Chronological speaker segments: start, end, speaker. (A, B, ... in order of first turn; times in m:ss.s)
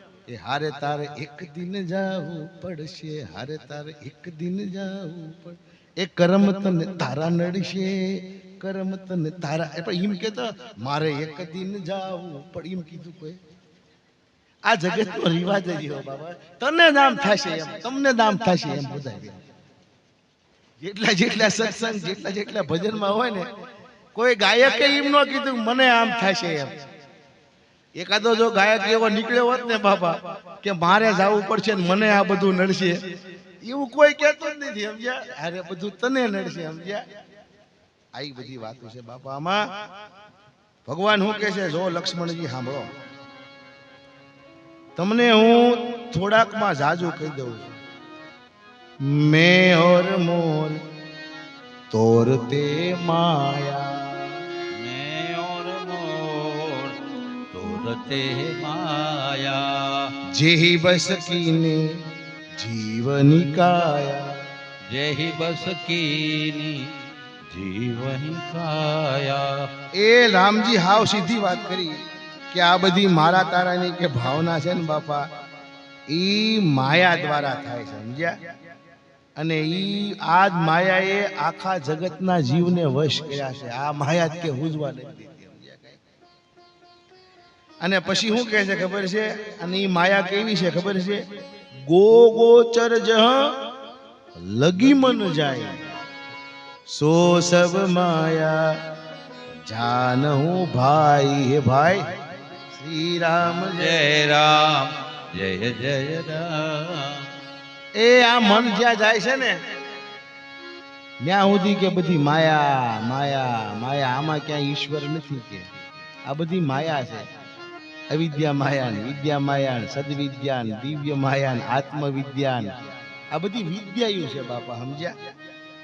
0:00.3-0:13.4 A
0:14.6-0:19.4 A
0:20.8-0:23.5 A
0:24.1-0:26.8 A
0:27.9-0:33.0 A
0:33.6-0:37.0 A
0:38.1-0:39.6 A
0:40.8-0:42.9 A
0:45.0-0:47.7 A
0:49.0-0:50.8 A
0:51.9-0:54.3 A
0:54.8-0:57.0 B
0:57.5-1:00.1 B
1:00.3-1:02.0 A
1:02.5-1:04.4 A
1:04.9-1:06.9 B
1:07.5-1:09.7 B
1:09.9-1:15.3 A
1:16.1-1:18.4 A
1:19.4-1:26.0 A
1:27.8-1:31.2 A
1:31.8-1:33.6 A
1:34.4-1:35.8 A
1:36.9-1:38.8 A
1:39.6-1:42.1 A
1:42.7-1:44.0 A
1:43.8-1:47.2 B
1:48.0-1:49.6 A
1:51.2-1:55.7 A
1:56.2-1:57.2 A
1:58.1-2:02.7 A
2:03.3-2:05.1 A